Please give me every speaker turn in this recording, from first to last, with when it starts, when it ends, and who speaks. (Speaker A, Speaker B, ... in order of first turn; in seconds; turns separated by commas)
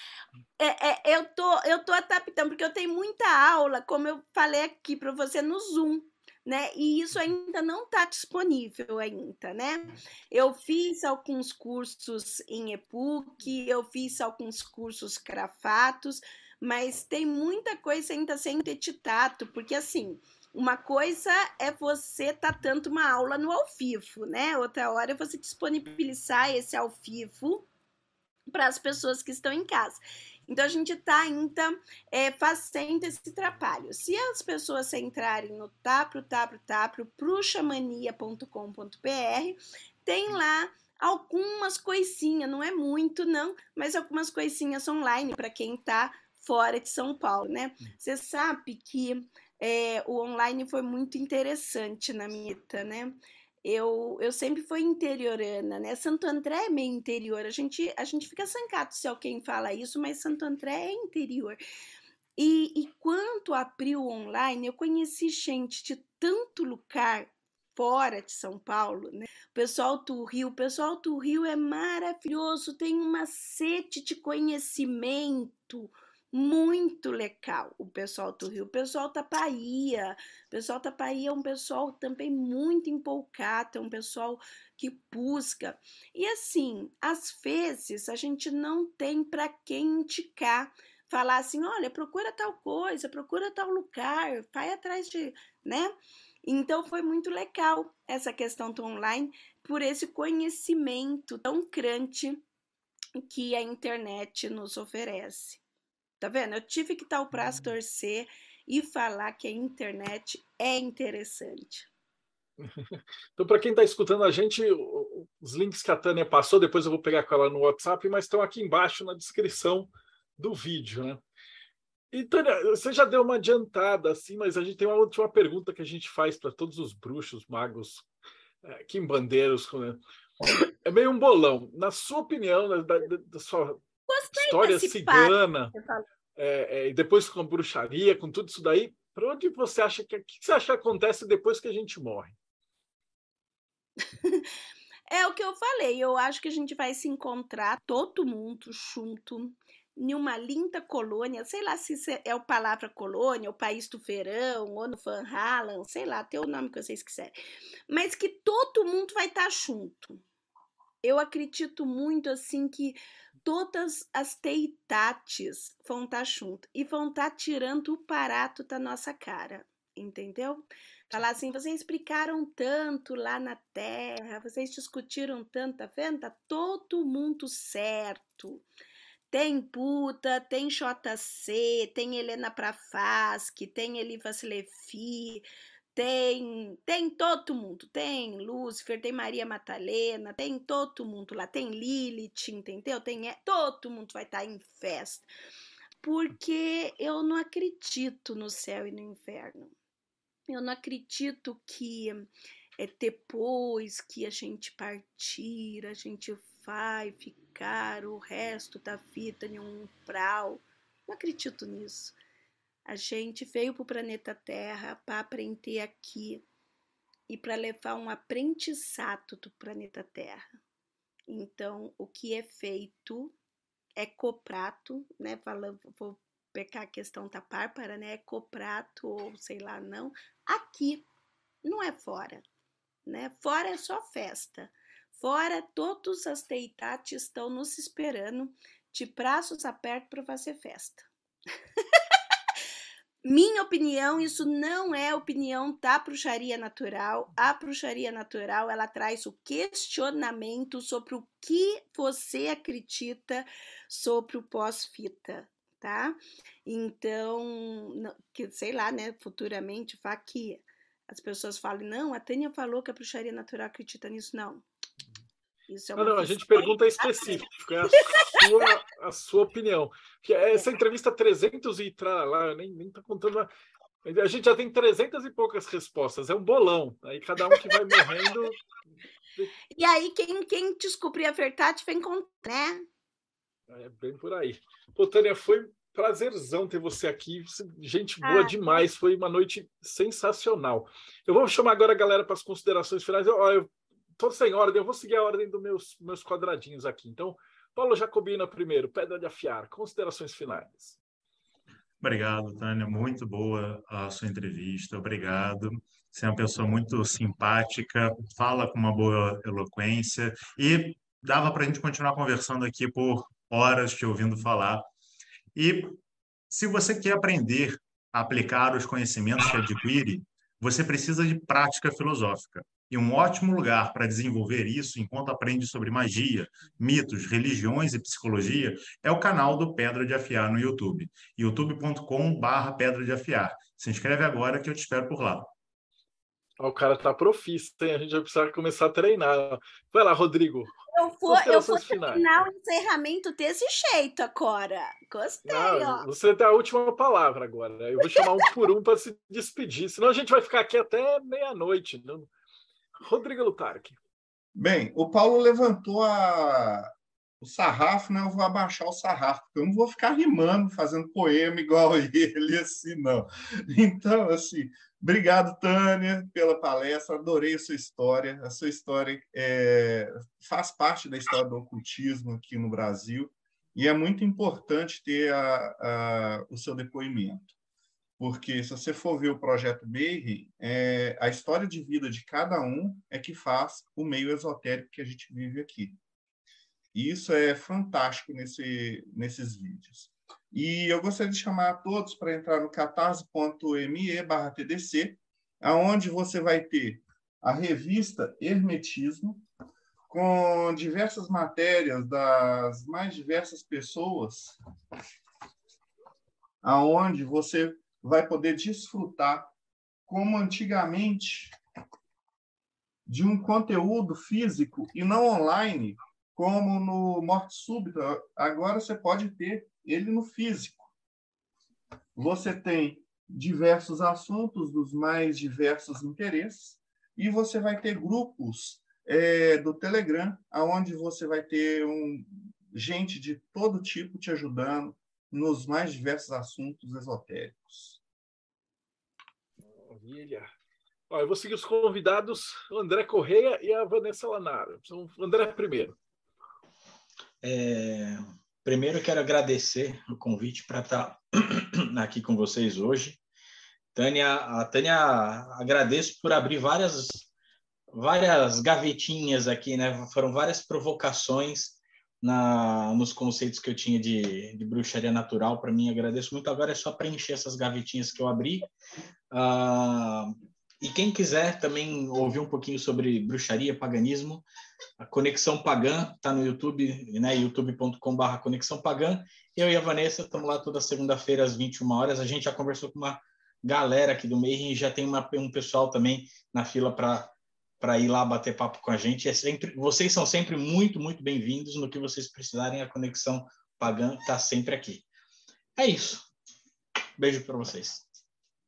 Speaker A: 0.6-27.6, Speaker A: 28.5-61.6, Speaker A: 62.4-102.4, Speaker A: 103.2-105.6, Speaker A: 106.2-111.9, Speaker B: 112.6-121.2, Speaker B: 122.1-128.1, Speaker B: 128.6-130.0, Speaker B: 130.7-135.7, Speaker A: 134.1-136.0, Speaker B: 136.4-142.3, Speaker A: 144.2-144.5, Speaker A: 145.1-157.4, Speaker A: 157.9-160.2, Speaker A: 161.0-178.6, Speaker A: 179.3-195.3, Speaker A: 196.0-199.7, Speaker A: 200.5-212.2, Speaker A: 212.9-216.4, Speaker A: 217.3-220.5, Speaker A: 221.3-223.3, Speaker A: 223.9-231.0, Speaker A: 231.6-232.4, Speaker A: 233.1-241.1, Speaker A: 243.2-264.6, Speaker A: 265.7-267.4, Speaker B: 265.9-273.5, Speaker A: 268.1-268.4, Speaker B: 274.0-278.6, Speaker A: 277.6-278.0, Speaker A: 279.7-282.8, Speaker B: 283.7-301.0, Speaker A: 288.2-288.8, Speaker C: 302.0-314.9, Speaker C: 315.5-316.0, Speaker C: 316.5-335.5, Speaker B: 336.6-342.2, Speaker A: 340.9-346.0, Speaker B: 345.4-352.3, Speaker A: 348.0-348.3, Speaker B: 353.0-354.0, Speaker D: 354.6-356.9, Speaker D: 357.4-377.5, Speaker D: 378.2-386.0, Speaker D: 386.9-399.4, Speaker D: 400.1-404.6, Speaker D: 406.6-409.5, Speaker D: 410.1-411.5, Speaker D: 413.1-420.9, Speaker D: 422.1-438.0, Speaker B: 439.7-440.5, Speaker B: 441.1-445.9, Speaker E: 447.4-453.2, Speaker E: 453.9-457.3, Speaker E: 457.9-468.7, Speaker E: 469.3-474.4, Speaker E: 475.0-495.1, Speaker E: 495.8-496.3, Speaker E: 497.2-498.1